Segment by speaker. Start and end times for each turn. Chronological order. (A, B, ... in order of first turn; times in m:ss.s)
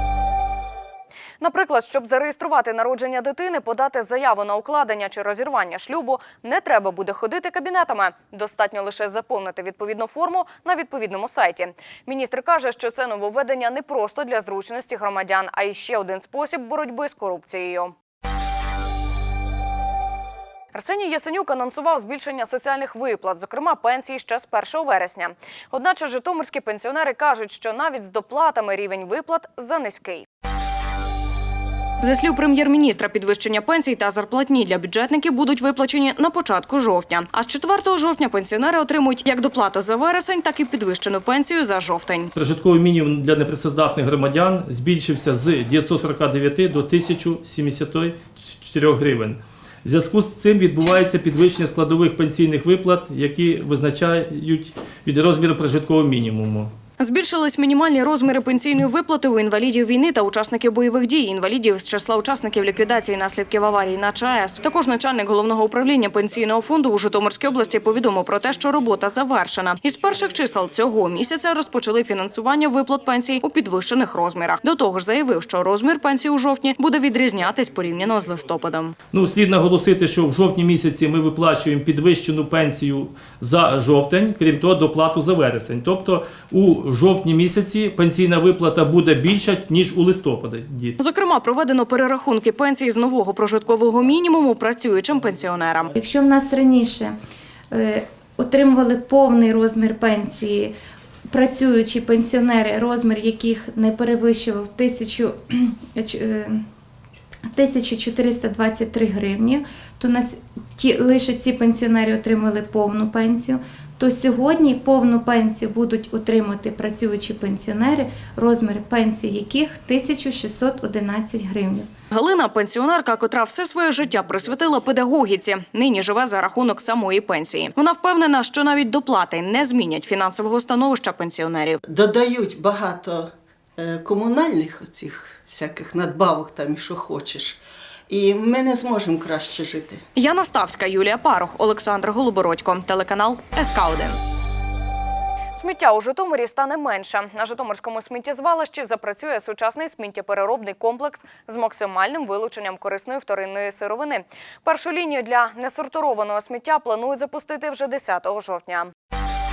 0:01.4-0:17.9 A
0:20.7-0:30.3 A
0:32.0-0:42.3 A
0:42.4-0:56.7 B
0:57.0-1:19.0 A
1:19.1-1:31.0 B
1:31.0-1:35.9 A
1:36.0-1:37.2 C
1:37.7-1:40.7 C
1:41.3-1:46.6 C
1:47.5-2:01.9 C
2:02.1-2:11.8 A
2:11.9-2:17.6 D
2:18.1-2:20.0 D
2:20.2-2:24.2 A
2:25.6-2:38.9 A